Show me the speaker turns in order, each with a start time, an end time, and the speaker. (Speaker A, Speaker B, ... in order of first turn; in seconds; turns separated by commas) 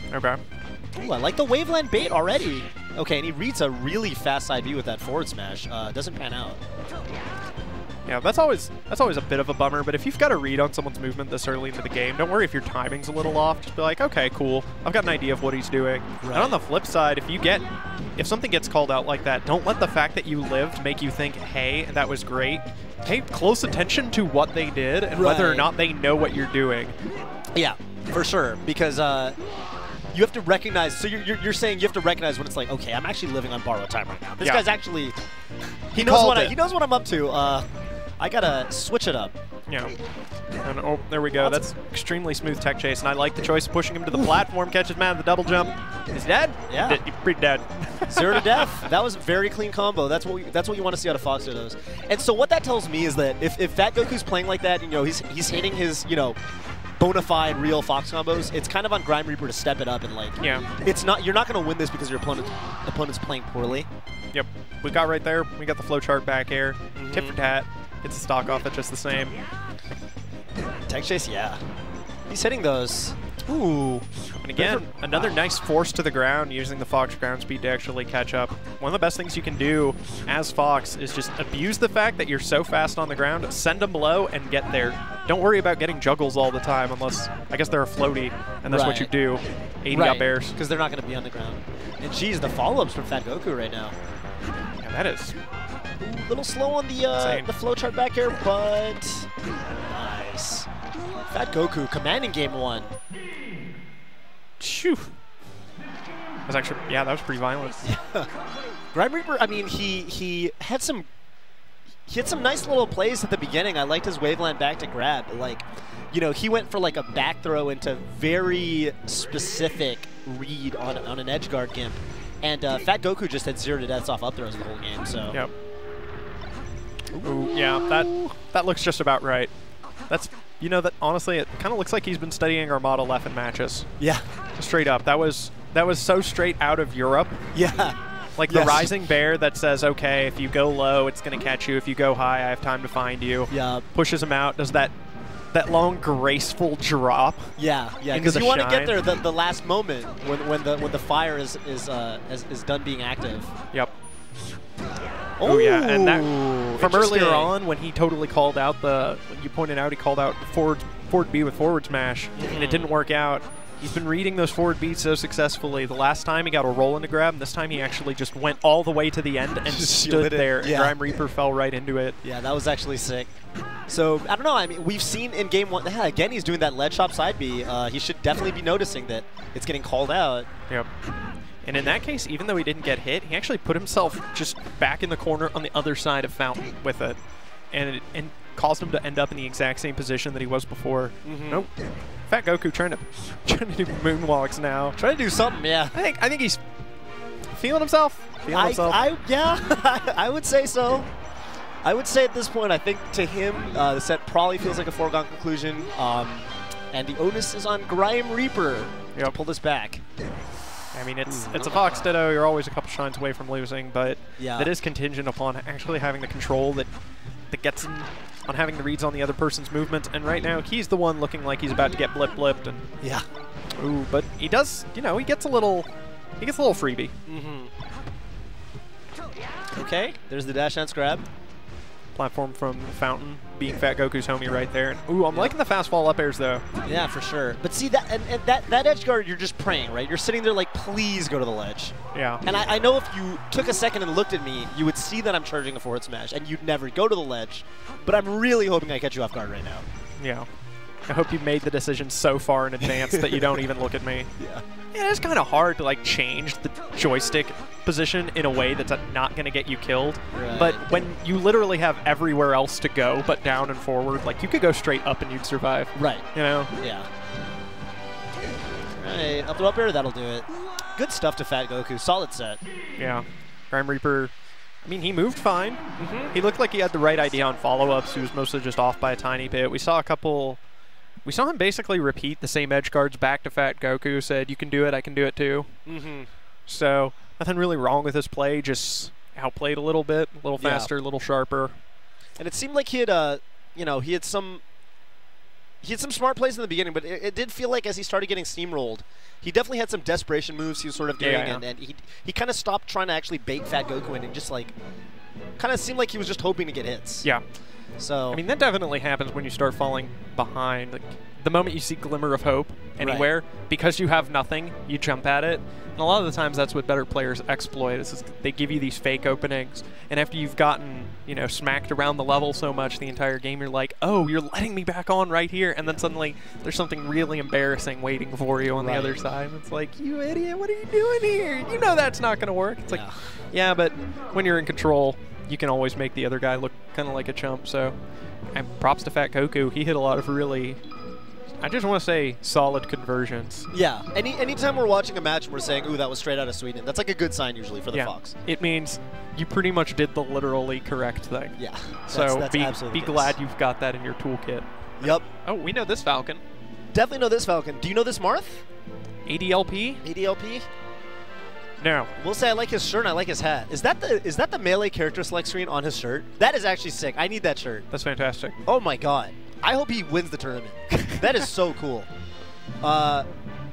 Speaker A: 0.1-0.4, Speaker B: 1.0-6.6, Speaker A: 8.1-17.7, Speaker B: 16.2-16.6, Speaker A: 18.2-26.9, Speaker B: 25.2-25.7, Speaker B: 27.6-29.4, Speaker B: 30.1-35.2, Speaker A: 34.4-34.6, Speaker A: 35.9-36.5, Speaker B: 35.9-37.7, Speaker B: 38.2-39.3, Speaker A: 39.7-40.0, Speaker A: 40.6-48.9, Speaker B: 46.7-47.0, Speaker B: 48.1-56.4, Speaker B: 57.0-63.9, Speaker A: 60.4-60.6, Speaker A: 64.3-69.4, Speaker B: 67.0-67.4, Speaker B: 70.9-71.6, Speaker B: 72.3-74.0, Speaker A: 74.4-90.6, Speaker B: 74.6-75.3, Speaker B: 88.7-89.1, Speaker B: 89.9-94.0, Speaker A: 94.8-95.4, Speaker B: 96.0-100.7, Speaker A: 97.2-97.5, Speaker B: 101.3-102.9, Speaker A: 104.6-105.1, Speaker A: 106.5-107.8, Speaker B: 107.8-108.3, Speaker B: 108.9-111.1, Speaker B: 112.1-125.4, Speaker B: 127.1-128.3, Speaker A: 127.2-129.5, Speaker A: 130.1-133.9, Speaker B: 134.0-134.3, Speaker A: 134.6-137.4, Speaker B: 137.5-138.9, Speaker A: 138.4-144.9, Speaker B: 143.5-143.9, Speaker A: 145.5-147.5, Speaker B: 147.6-153.5, Speaker A: 148.1-149.0, Speaker B: 155.4-157.5, Speaker A: 155.4-172.2, Speaker B: 162.4-162.9, Speaker B: 169.7-171.0, Speaker B: 172.2-173.3, Speaker B: 173.9-180.5, Speaker A: 181.6-187.2, Speaker A: 187.7-191.7, Speaker B: 191.2-191.7, Speaker A: 192.3-195.0, Speaker B: 195.0-195.9, Speaker A: 195.9-196.6, Speaker A: 197.5-199.0, Speaker B: 198.5-201.1, Speaker B: 201.8-210.0, Speaker A: 210.9-216.9, Speaker B: 211.3-211.7, Speaker B: 214.4-214.7, Speaker A: 217.5-222.8, Speaker A: 223.8-227.2, Speaker B: 227.3-227.7, Speaker B: 229.7-231.3, Speaker A: 232.2-236.6, Speaker B: 236.8-249.9, Speaker A: 242.1-242.4, Speaker A: 250.2-250.5, Speaker A: 251.1-254.3, Speaker B: 252.8-253.6, Speaker B: 254.4-254.6, Speaker A: 254.9-266.7, Speaker B: 260.4-261.0, Speaker B: 265.9-267.1, Speaker B: 268.9-272.6, Speaker A: 273.0-274.3, Speaker A: 274.8-275.8, Speaker B: 276.0-276.3, Speaker A: 276.3-280.6, Speaker A: 281.2-285.7, Speaker B: 285.9-286.3, Speaker A: 286.7-291.8, Speaker B: 290.6-290.9, Speaker B: 292.4-294.6, Speaker B: 295.8-304.7, Speaker A: 301.2-301.6, Speaker B: 305.6-307.3, Speaker B: 308.0-308.4, Speaker A: 308.3-338.0, Speaker B: 313.0-313.3, Speaker B: 328.8-329.3, Speaker B: 332.9-333.4, Speaker A: 338.5-340.8, Speaker A: 341.6-343.7, Speaker B: 343.7-348.4, Speaker A: 347.9-351.6, Speaker B: 351.6-353.4, Speaker A: 352.1-356.4, Speaker B: 355.0-355.3, Speaker B: 356.9-358.6, Speaker A: 359.3-360.0, Speaker B: 360.0-360.7, Speaker A: 361.8-362.1, Speaker B: 362.1-367.9, Speaker A: 367.9-368.6, Speaker B: 368.6-372.1, Speaker B: 372.8-373.3